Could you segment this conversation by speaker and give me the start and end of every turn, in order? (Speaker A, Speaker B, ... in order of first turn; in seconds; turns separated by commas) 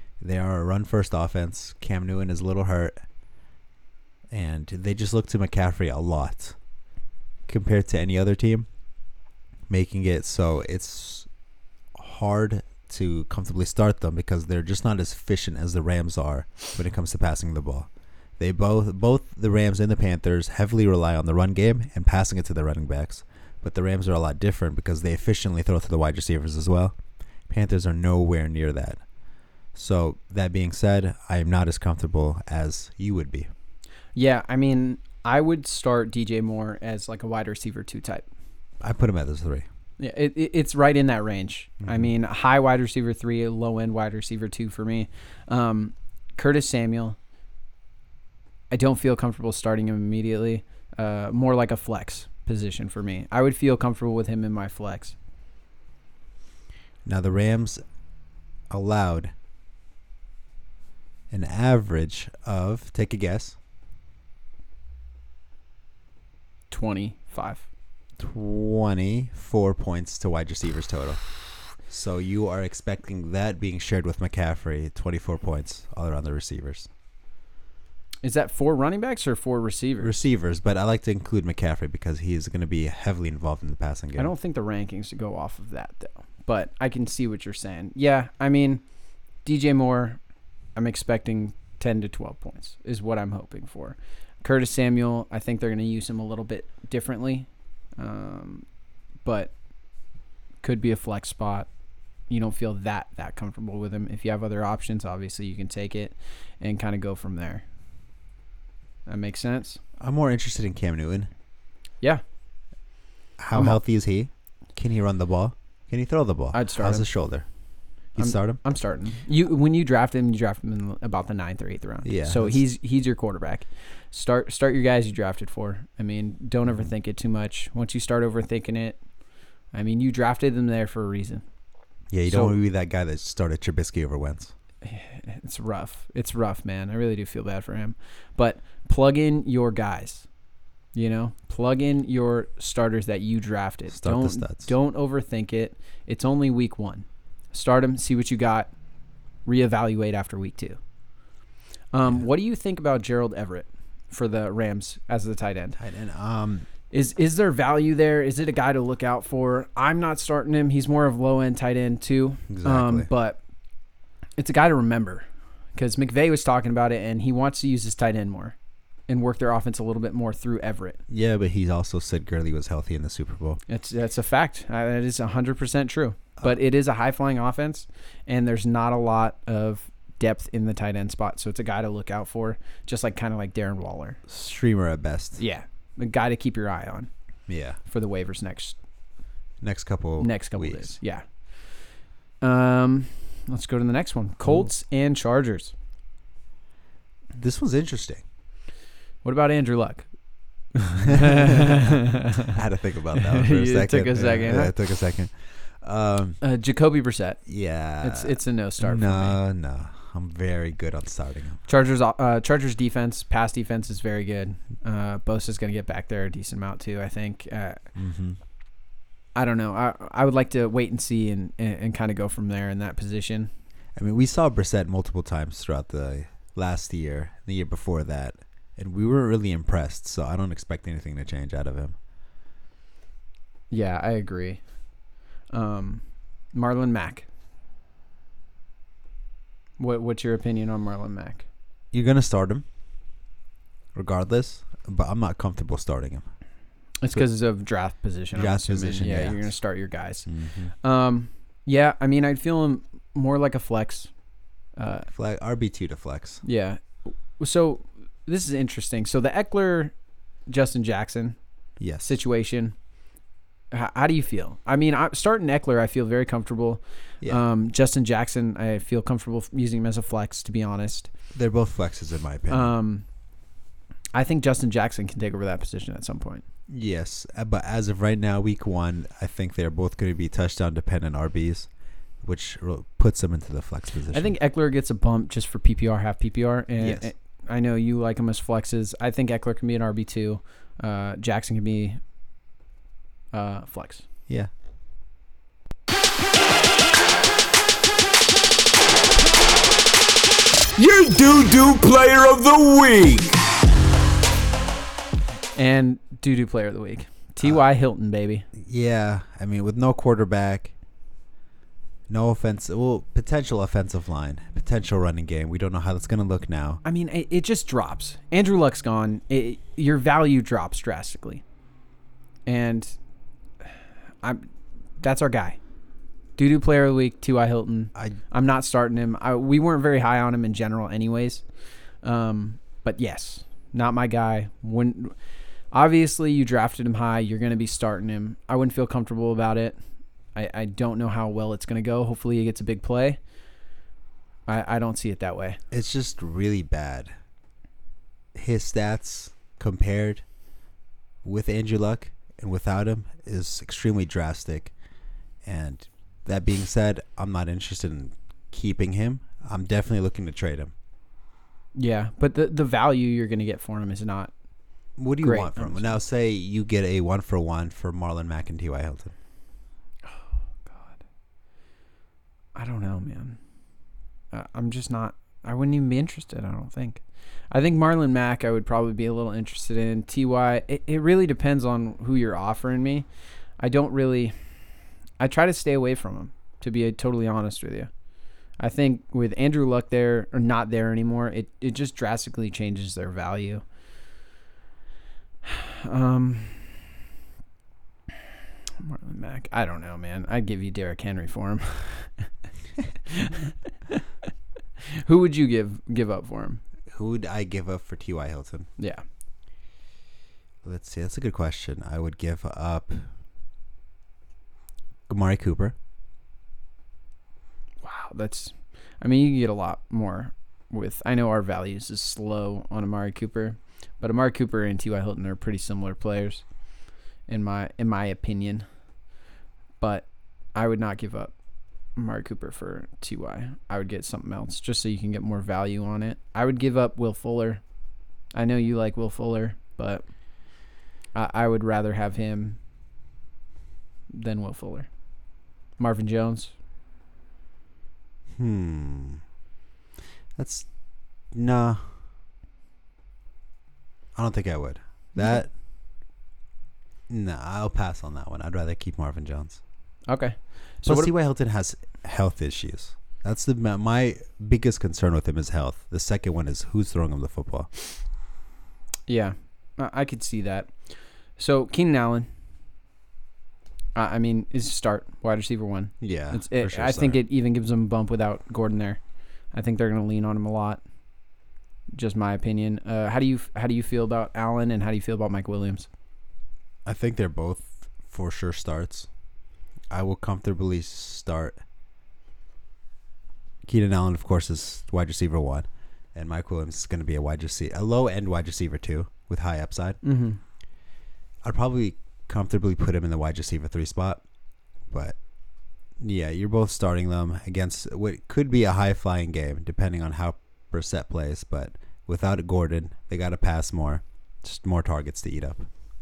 Speaker A: 0.2-3.0, Speaker A: 4.3-6.5, Speaker A: 7.5-8.7, Speaker A: 9.7-11.3, Speaker A: 11.9-26.9, Speaker A: 27.5-29.0, Speaker A: 29.7-33.5, Speaker B: 34.1-38.3, Speaker A: 38.8-39.6, Speaker B: 40.0-47.1, Speaker B: 48.7-55.1, Speaker A: 57.0-57.8, Speaker A: 58.7-59.3, Speaker A: 61.3-63.5, Speaker B: 66.7-67.7, Speaker A: 68.2-71.2, Speaker A: 71.8-76.9, Speaker B: 78.2-80.2, Speaker A: 80.0-84.3, Speaker B: 84.2-88.8, Speaker B: 89.4-90.2, Speaker B: 90.7-97.5, Speaker B: 98.0-98.6, Speaker B: 99.2-99.5, Speaker B: 100.6-101.7, Speaker B: 102.3-107.6, Speaker B: 109.0-109.8, Speaker A: 110.0-111.3, Speaker A: 113.4-117.5, Speaker B: 113.5-113.8, Speaker B: 116.5-117.1, Speaker A: 118.2-118.6, Speaker B: 118.2-129.0, Speaker A: 122.0-122.6, Speaker B: 129.7-131.4, Speaker A: 132.1-134.5, Speaker B: 132.3-132.6, Speaker B: 134.8-140.2, Speaker B: 140.9-148.7, Speaker A: 143.9-144.7, Speaker B: 149.4-150.8, Speaker B: 151.9-155.8, Speaker A: 155.8-156.7, Speaker B: 156.9-163.4, Speaker A: 162.5-163.1, Speaker B: 164.4-168.6, Speaker B: 169.1-171.0, Speaker A: 171.1-173.6, Speaker B: 173.7-184.2, Speaker A: 184.3-185.4, Speaker B: 185.4-187.1, Speaker A: 187.5-187.8, Speaker B: 187.8-188.8, Speaker A: 189.6-190.9, Speaker B: 190.2-191.2, Speaker B: 192.4-195.7, Speaker A: 197.3-198.2, Speaker B: 199.2-200.1, Speaker B: 200.7-202.5, Speaker A: 201.1-206.4, Speaker B: 203.2-204.7, Speaker B: 206.4-207.4, Speaker A: 207.4-211.6, Speaker B: 208.0-209.4, Speaker B: 211.7-217.8, Speaker A: 217.9-218.4, Speaker B: 219.3-223.5, Speaker A: 223.9-231.9, Speaker B: 233.7-234.6, Speaker B: 235.5-237.3, Speaker B: 239.8-241.4, Speaker A: 241.9-242.6, Speaker A: 243.9-246.3, Speaker B: 247.0-250.3, Speaker A: 248.3-249.5, Speaker A: 250.2-250.7, Speaker B: 250.8-254.1, Speaker B: 254.8-255.1, Speaker A: 255.1-256.4, Speaker B: 256.4-259.9, Speaker B: 260.5-261.4, Speaker A: 261.8-262.2, Speaker B: 262.0-262.7, Speaker B: 263.7-271.1, Speaker A: 271.3-272.7, Speaker B: 272.5-273.0, Speaker B: 274.1-276.4, Speaker A: 276.7-281.7, Speaker A: 282.2-284.3, Speaker B: 284.1-292.0, Speaker A: 286.8-287.1, Speaker B: 293.3-294.0, Speaker C: 300.8-303.4, Speaker B: 305.5-308.5, Speaker A: 308.6-310.7, Speaker A: 312.1-316.8, Speaker B: 316.8-321.4, Speaker B: 322.4-322.9, Speaker B: 325.0-325.6, Speaker B: 326.4-331.4, Speaker B: 332.0-335.1, Speaker B: 335.7-339.8, Speaker B: 340.3-343.2, Speaker B: 344.5-345.6, Speaker A: 345.7-347.1, Speaker A: 348.3-350.2, Speaker A: 351.2-354.7, Speaker A: 355.4-360.7, Speaker B: 361.7-364.3, Speaker A: 365.0-369.1, Speaker B: 365.2-365.9, Speaker B: 370.0-371.0, Speaker B: 372.5-373.4, Speaker B: 374.3-383.1, Speaker B: 383.6-384.3, Speaker B: 385.2-387.9, Speaker B: 388.6-393.6, Speaker B: 395.4-396.8, Speaker B: 398.8-402.3, Speaker B: 403.1-404.0, Speaker B: 404.9-406.6, Speaker A: 406.9-408.7, Speaker B: 408.8-409.0, Speaker A: 410.6-413.0, Speaker A: 415.1-415.7, Speaker B: 417.8-426.4, Speaker B: 427.3-428.6, Speaker B: 429.8-431.3, Speaker B: 431.9-437.6, Speaker B: 438.3-440.0, Speaker B: 441.1-442.6, Speaker B: 444.1-444.9, Speaker B: 445.8-446.5, Speaker A: 448.3-449.2, Speaker A: 450.4-450.7, Speaker A: 451.3-451.9, Speaker A: 454.1-455.5, Speaker B: 455.1-455.4, Speaker A: 457.1-459.6, Speaker B: 460.1-461.1, Speaker A: 460.8-467.7, Speaker B: 469.1-470.7, Speaker B: 471.4-472.3, Speaker B: 473.9-479.0, Speaker A: 476.0-477.2, Speaker B: 479.5-480.8, Speaker B: 481.9-485.9, Speaker A: 486.8-489.1, Speaker A: 489.9-491.6, Speaker A: 493.6-500.0, Speaker B: 500.0-500.4, Speaker A: 501.4-504.2, Speaker A: 504.9-505.2, Speaker A: 506.0-515.7